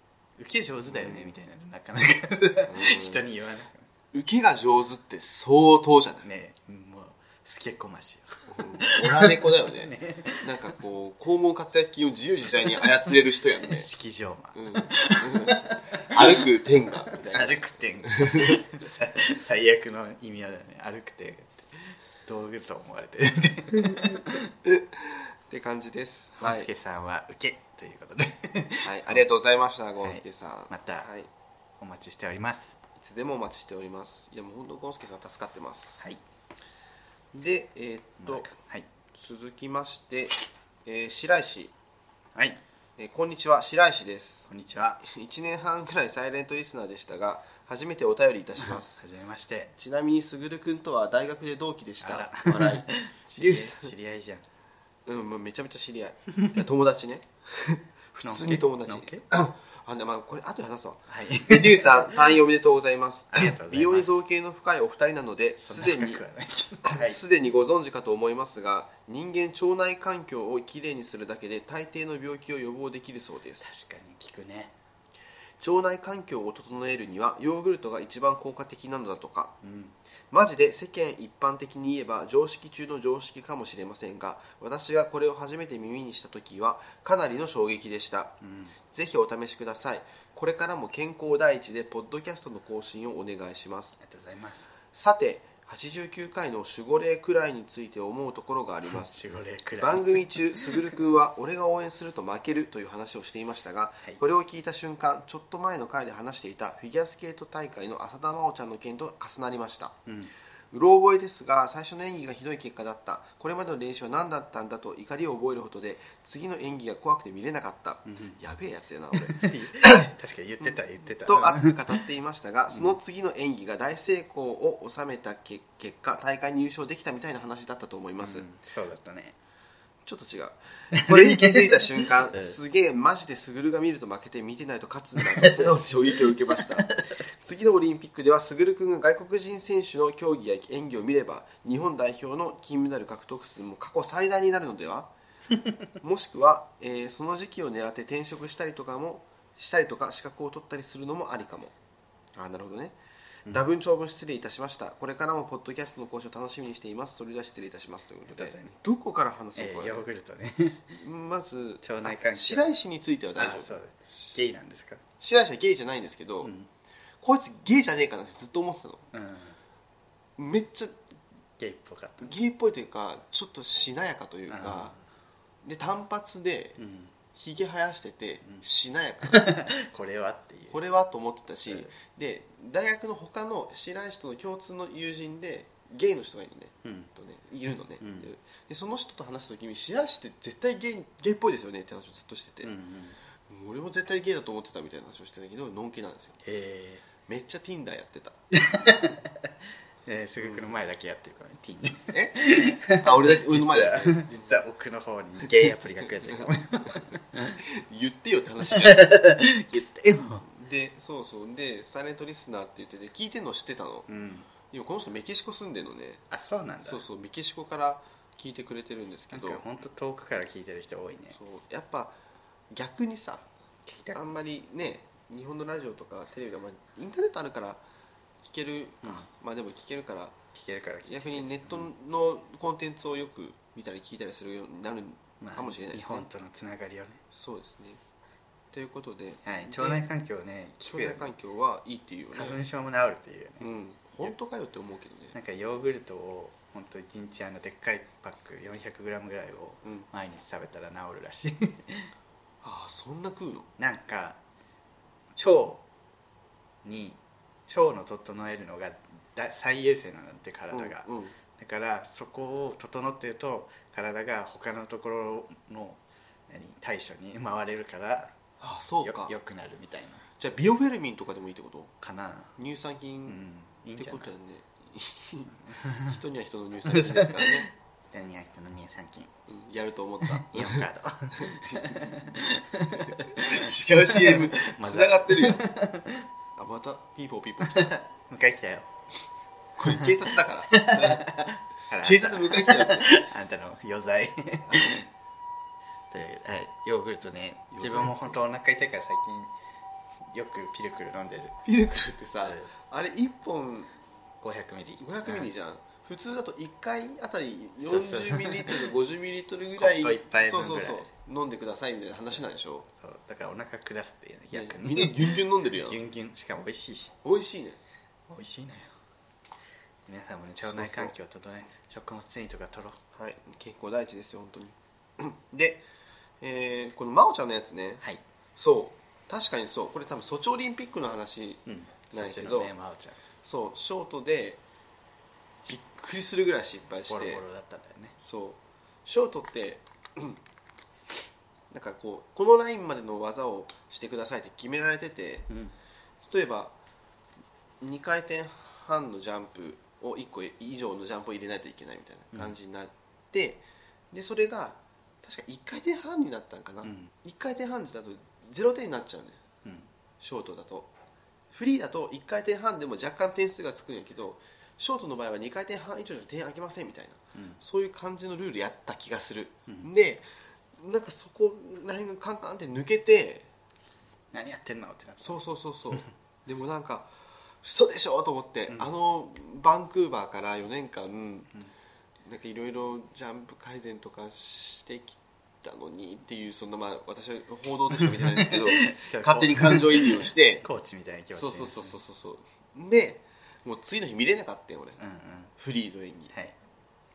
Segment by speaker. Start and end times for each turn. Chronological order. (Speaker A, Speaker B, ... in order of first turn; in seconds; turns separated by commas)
Speaker A: 0.4-3.9, Speaker B: 0.9-1.3, Speaker B: 2.6-3.2, Speaker B: 4.1-6.2, Speaker A: 6.2-10.4, Speaker B: 8.5-13.9, Speaker A: 12.4-12.9, Speaker A: 13.7-16.4, Speaker B: 14.5-18.6, Speaker A: 17.1-24.4, Speaker B: 24.6-26.7, Speaker A: 26.4-29.2, Speaker B: 28.8-31.3, Speaker A: 30.0-31.1, Speaker A: 31.8-32.8, Speaker B: 33.0-36.1, Speaker B: 37.3-38.5, Speaker A: 38.2-38.9, Speaker B: 39.1-41.7, Speaker A: 42.3-42.6, Speaker B: 43.0-44.5, Speaker A: 44.5-45.0, Speaker B: 45.0-49.0, Speaker A: 48.6-49.7, Speaker B: 49.8-53.9, Speaker A: 52.0-54.4, Speaker B: 55.0-66.2, Speaker A: 58.2-59.2, Speaker A: 61.1-62.1, Speaker A: 63.3-64.2, Speaker A: 65.6-67.2, Speaker B: 66.8-73.7, Speaker A: 73.6-74.7, Speaker B: 75.6-79.5, Speaker A: 79.6-80.0, Speaker B: 80.3-88.4, Speaker A: 88.4-88.7, Speaker B: 88.9-94.0, Speaker A: 94.0-94.7, Speaker B: 94.9-99.2, Speaker A: 99.0-100.9, Speaker B: 99.8-110.0, Speaker A: 110.0-110.3, Speaker B: 110.7-120.1, Speaker A: 118.0-118.4, Speaker A: 119.3-121.9, Speaker B: 120.6-128.4, Speaker A: 128.2-129.3, Speaker B: 130.0-145.1, Speaker A: 130.9-132.5, Speaker A: 135.2-135.7, Speaker B: 146.0-151.7, Speaker B: 152.3-153.0, Speaker B: 153.5-160.0, Speaker A: 158.3-158.8, Speaker A: 159.6-161.0, Speaker B: 161.0-163.7, Speaker A: 161.8-162.7, Speaker A: 163.3-165.0, Speaker B: 165.2-166.5, Speaker A: 166.4-166.7, Speaker B: 167.2-169.1, Speaker A: 169.1-169.6, Speaker B: 170.4-171.0, Speaker A: 171.6-172.3, Speaker B: 172.2-174.9, Speaker A: 174.5-175.0, Speaker B: 175.6-176.8, Speaker A: 176.8-177.1, Speaker B: 177.3-179.5, Speaker A: 179.3-180.8, Speaker B: 180.7-192.7, Speaker A: 186.8-187.1, Speaker A: 188.0-188.3, Speaker A: 192.6-193.2, Speaker B: 193.5-196.4, Speaker A: 196.4-197.0, Speaker B: 197.2-198.3, Speaker A: 198.5-199.5, Speaker A: 200.1-207.6, Speaker B: 200.4-200.7, Speaker B: 202.1-204.6, Speaker B: 206.2-209.1, Speaker A: 208.7-210.4, Speaker B: 210.4-214.1, Speaker A: 214.1-214.5, Speaker B: 214.7-216.2, Speaker A: 216.3-217.0, Speaker B: 216.8-219.6, Speaker A: 219.3-221.4, Speaker B: 221.3-222.2, Speaker B: 222.7-223.4, Speaker A: 223.8-224.2, Speaker B: 224.1-227.8, Speaker B: 228.4-230.3, Speaker A: 229.0-229.3, Speaker A: 230.5-231.9, Speaker B: 231.1-236.3, Speaker A: 235.4-237.2, Speaker B: 237.3-238.0, Speaker B: 238.7-240.0, Speaker A: 239.4-241.3, Speaker B: 240.8-242.6, Speaker A: 242.3-243.7, Speaker B: 243.6-245.3, Speaker A: 245.3-252.1, Speaker B: 252.6-253.7, Speaker A: 253.8-254.4, Speaker A: 255.3-255.8, Speaker A: 256.8-261.1, Speaker B: 260.7-261.3, Speaker A: 261.6-268.4, Speaker B: 268.6-269.3, Speaker A: 269.0-270.2, Speaker B: 270.4-271.9, Speaker A: 272.0-272.5, Speaker B: 272.6-273.4, Speaker A: 273.2-274.3, Speaker B: 274.0-277.7, Speaker A: 275.7-276.1, Speaker A: 276.9-279.3, Speaker B: 279.5-280.9, Speaker A: 280.2-286.3, Speaker B: 281.4-282.0, Speaker B: 283.0-285.6, Speaker B: 286.6-287.9, Speaker A: 287.6-288.9, Speaker B: 289.8-291.2, Speaker A: 289.8-290.1, Speaker A: 290.7-295.1, Speaker B: 292.0-293.1, Speaker A: 296.1-299.5, Speaker B: 297.7-298.4, Speaker A: 300.3-301.6, Speaker B: 301.6-303.9, Speaker A: 302.4-302.7, Speaker A: 304.4-305.5, Speaker B: 305.0-312.9, Speaker A: 307.8-308.9, Speaker A: 309.8-311.1, Speaker A: 312.9-315.2, Speaker B: 314.5-316.0, Speaker A: 315.8-317.1, Speaker B: 317.2-317.8, Speaker A: 318.3-318.9, Speaker A: 320.1-323.0, Speaker B: 320.6-321.1, Speaker B: 323.1-325.8, Speaker B: 326.4-328.0, Speaker B: 328.6-332.7, Speaker A: 331.6-333.2, Speaker B: 333.4-334.6, Speaker B: 335.7-337.4, Speaker A: 337.1-338.1, Speaker B: 338.2-340.4, Speaker B: 341.7-345.5, Speaker B: 346.2-346.7, Speaker B: 347.8-359.4, Speaker A: 356.8-357.1, Speaker B: 360.2-360.9, Speaker B: 361.5-373.5, Speaker A: 367.3-367.6, Speaker A: 374.3-375.4, Speaker B: 375.2-381.5, Speaker B: 382.2-390.6, Speaker A: 388.2-392.0, Speaker B: 391.3-395.0, Speaker A: 395.0-395.5, Speaker B: 395.6-396.3